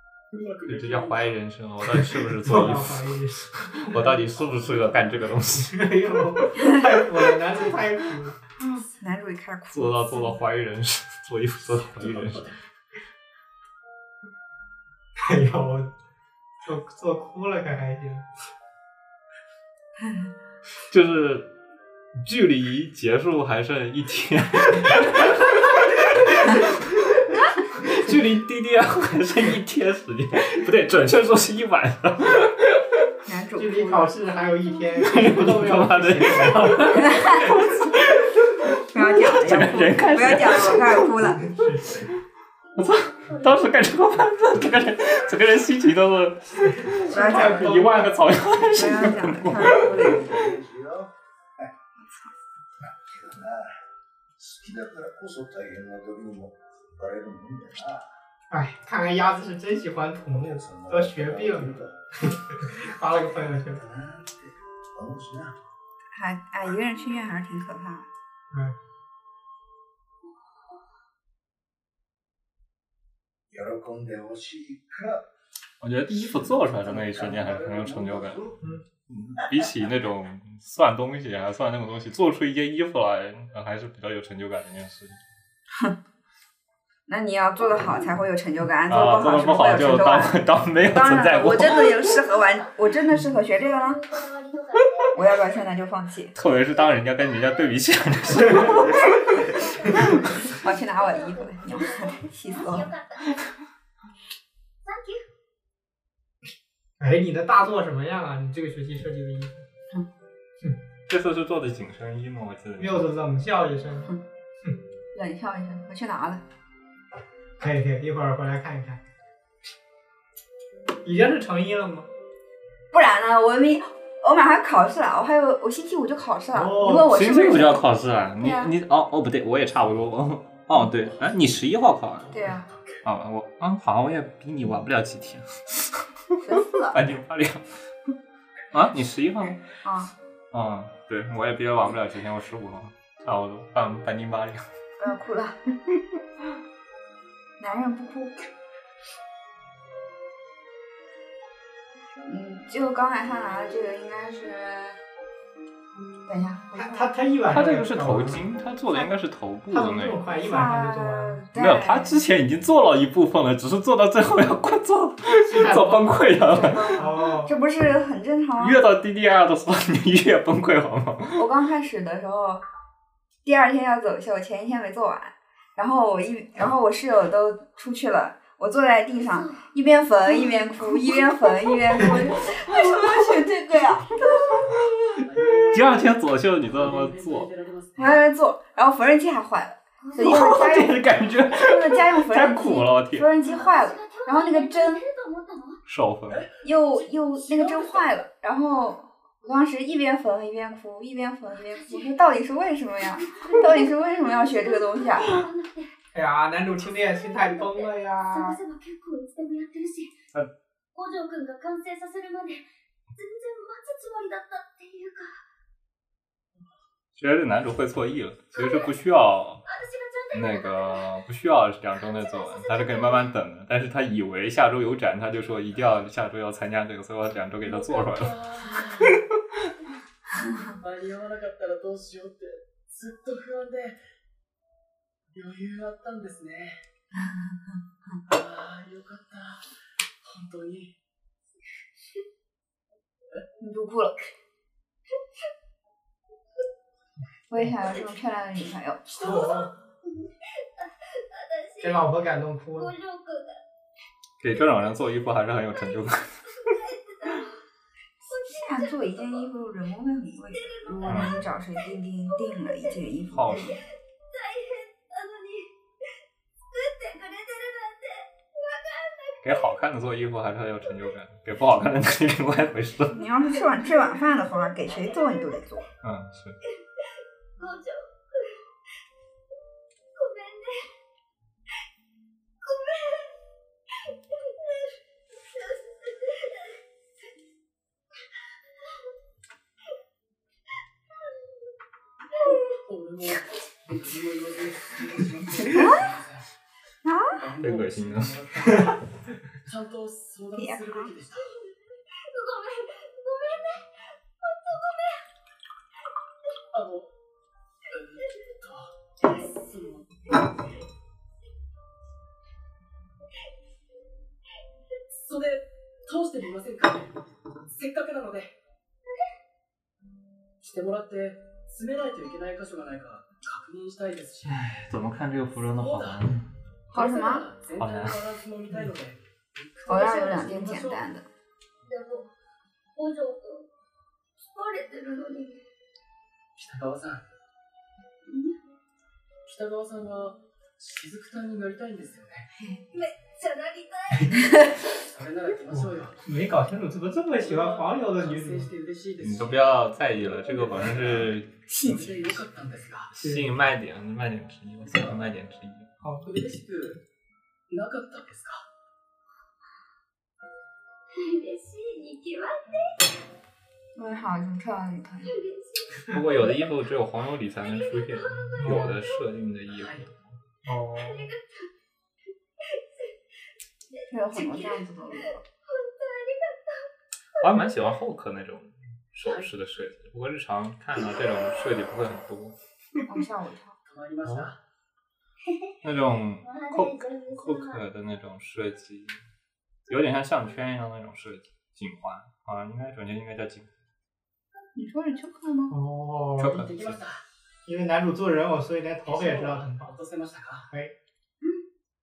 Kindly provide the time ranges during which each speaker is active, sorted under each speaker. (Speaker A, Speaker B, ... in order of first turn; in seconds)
Speaker A: 0.3-1.4, 4.4-5.2, 11.7-12.6, 131.0-131.4, 132.2-133.0, 184.3-188.2, 196.3-198.1, 227.6-229.2, 230.6-234.0, 235.3-236.8, 238.3-239.7, 240.2-240.9, 249.2-249.6, 292.8-296.4, 297.3-299.0, 299.6-301.5, 306.7-307.1, 307.9-310.1, 315.1-317.1, 317.7-318.5, 320.6-324.7, 325.6-326.2, 326.9-331.0, 336.6-337.3, 339.4-342.5, 344.9-346.3, 347.4-353.1, 354.8-355.2, 356.2-357.0, 357.7-358.6, 369.7-370.1, 383.9-384.6, 396.4-397.2, 399.1-400.7
Speaker B: 0.7-5.8, 9.7-12.5, 20.9-21.5, 22.2-32.9, 35.0-42.1, 42.8-50.3, 75.8-78.4, 79.1-85.2, 88.9-92.0, 96.3-100.0, 111.1-113.1, 127.0-132.3, 133.0-137.7, 138.7-139.7, 140.5-144.6, 157.5-160.2, 161.5-167.1, 168.6-171.4, 184.8-187.5, 190.2-193.3, 195.8-196.4, 217.2-219.6, 220.3-228.5, 254.4-256.7, 261.1-261.4, 263.3-263.8, 269.4-273.2, 276.0-276.6, 297.6-298.4, 324.4-326.5, 327.8-328.3, 349.2-352.4, 353.1-355.9, 366.1-370.4, 377.4-382.5, 385.8-389.2, 389.9-393.7, 396.4-397.0
Speaker C: 2.4-4.0, 5.6-8.4, 15.2-15.9, 16.6-18.2, 33.5-37.6, 41.4-42.1, 47.1-48.3, 58.5-63.8, 68.5-68.8, 107.0-109.6, 112.8-114.8, 117.6-119.0, 121.0-122.1, 126.5-127.2, 156.7-158.4, 159.7-161.4, 165.5-166.2, 166.9-167.5, 206.1-208.6, 249.2-249.7, 251.8-252.9, 345.7-348.7, 353.2-353.5, 356.0-356.3, 368.6-368.9, 370.6-371.3, 395.7-396.6, 397.6-399.9
Speaker D: 9.0-10.3, 20.0-20.3, 33.2-34.2, 36.9-37.5, 38.9-41.5, 47.1-47.8, 48.7-50.2, 52.0-52.3, 66.1-68.1, 87.1-94.0, 95.1-96.3, 100.3-102.9, 115.1-116.4, 122.9-128.7, 132.3-132.7, 136.4-137.0, 139.8-140.1, 145.0-145.6, 147.6-148.5, 152.2-155.0, 156.2-157.1, 160.3-162.2, 166.5-168.8, 171.3-172.6, 173.4-184.6, 187.9-195.0, 196.6-205.4, 237.2-238.2, 243.6-244.3, 247.5-249.1, 258.4-263.8, 273.1-275.9, 297.0-297.4, 300.6-301.1, 326.9-327.5, 329.9-331.2, 363.9-365.3, 374.1-375.4, 383.1-383.8, 394.7-395.8
Speaker E: 42.7-44.0, 70.3-70.7, 91.7-92.8, 93.5-95.6, 98.3-103.5, 104.8-105.2, 179.3-179.6, 190.0-190.6, 193.4-195.8, 201.7-202.2, 203.2-205.9, 207.0-210.2, 210.9-215.3, 218.5-218.9, 219.7-221.2, 222.0-223.3, 249.2-250.1, 250.8-252.2, 252.7-253.6, 256.6-257.5, 258.2-259.3, 260.6-261.4, 262.5-262.9, 264.3-265.7, 266.7-269.7, 273.5-275.6, 277.6-278.6, 280.1-280.9, 282.6-283.3, 284.5-284.9, 285.5-286.6, 301.6-305.2, 331.8-332.3, 332.9-333.7, 334.4-335.6, 338.2-338.6, 342.9-344.6, 361.1-363.0, 365.3-366.6, 367.6-369.1, 370.9-371.5, 374.3-374.8, 375.8-376.8, 385.5-385.7, 386.4-387.8
Speaker F: 49.7-51.1, 52.8-53.8, 54.4-58.1, 60.3-62.0, 63.6-65.5, 73.5-75.3, 76.5-78.6